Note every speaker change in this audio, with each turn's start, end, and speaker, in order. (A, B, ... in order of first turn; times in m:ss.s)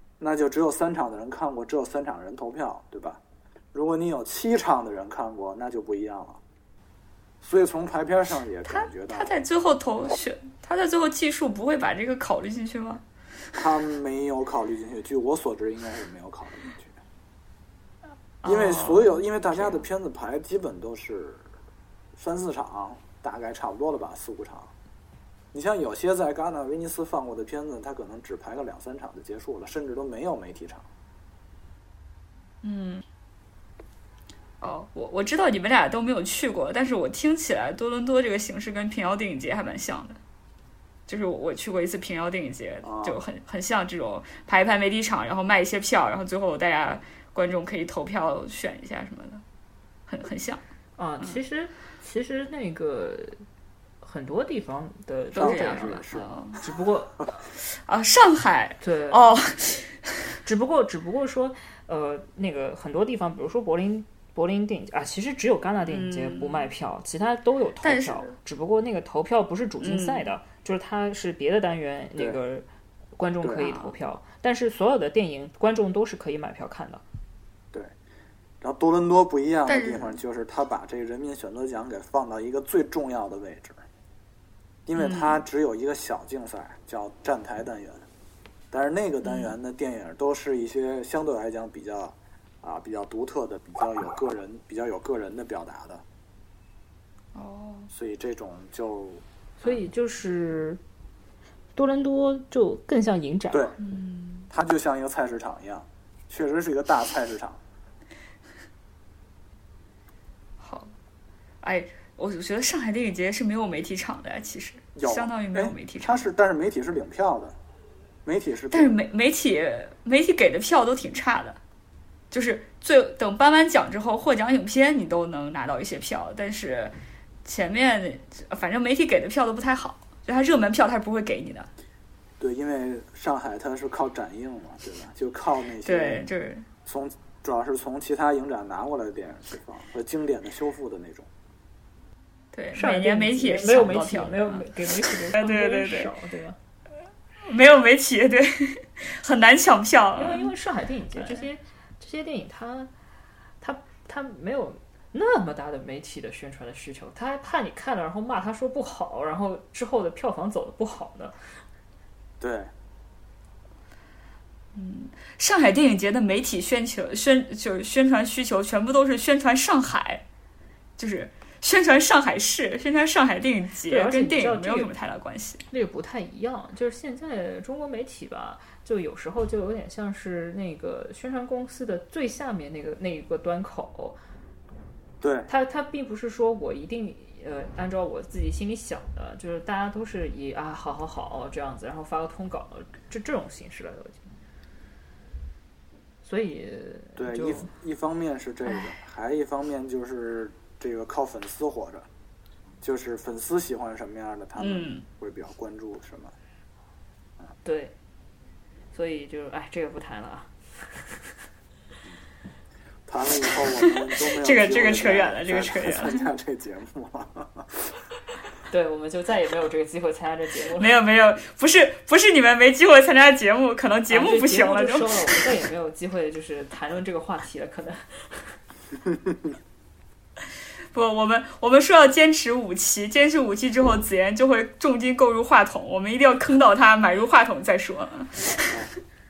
0:00.2-0:03.2 A
0:03.7-0:06.4 A
0:07.4-0:09.4 A
0:08.6-0:13.0 B
0:13.6-0:17.0 A
0:18.4-0:19.8 B
0:18.4-0:21.4 A
0:22.2-0:24.7 A
0:25.5-0:30.8 A
0:32.6-0:33.0 B
0:34.6-0:40.2 B
0:41.1-0:49.4 B
0:42.8-0:43.2 A
0:50.1-0:50.6 B
0:51.0-0:53.4 C
0:54.0-0:57.1 C
0:55.3-0:56.6 B
0:55.4-0:56.2 A
0:57.6-1:00.2 B
0:58.8-0:59.2 C
1:00.4-1:12.6 C
1:05.8-1:06.7 B
1:07.8-1:08.3 B
1:09.8-1:10.3 B
1:13.2-1:17.0 C
1:18.6-1:23.8 A
1:19.7-1:20.2 B
1:24.9-1:28.0 A
1:25.0-1:25.4 B
1:28.7-1:36.0 A
1:29.2-1:29.5 B
1:37.3-1:37.9 B
1:37.9-1:39.7 A
1:39.6-1:40.8 C
1:41.8-1:43.7 C
1:43.8-1:44.5 B
1:44.5-1:47.6 A
1:50.6-1:50.9 B
1:51.6-1:56.3 B
1:55.0-1:57.6 A
1:58.2-1:58.9 A
1:58.7-2:01.6 B
2:02.3-2:11.7 B
2:12.4-2:16.3 A
2:15.8-2:16.6 B
2:16.8-2:21.3 A
2:22.5-2:26.1 B
2:22.7-2:26.6 C
2:27.4-2:30.5 B
2:30.2-2:32.9 C
2:31.2-2:31.4 B
2:33.6-2:41.3 C
2:42.4-2:42.7 A
2:44.7-2:50.2 B
2:51.0-2:55.6 B
2:53.9-2:54.9 C
2:55.7-3:04.2 C
3:05.2-3:05.5 A
3:05.5-3:14.2 C
3:16.2-3:17.7 C
3:17.2-3:22.1 A
3:22.8-3:26.3 A
3:24.6-3:25.0 B
3:27.6-3:27.9 C
3:28.9-3:31.1 C
3:33.1-3:38.0 A
3:33.7-3:36.3 B
3:38.7-3:40.9 C
3:40.8-3:45.4 B
3:44.1-3:48.5 C
3:50.9-3:58.8 B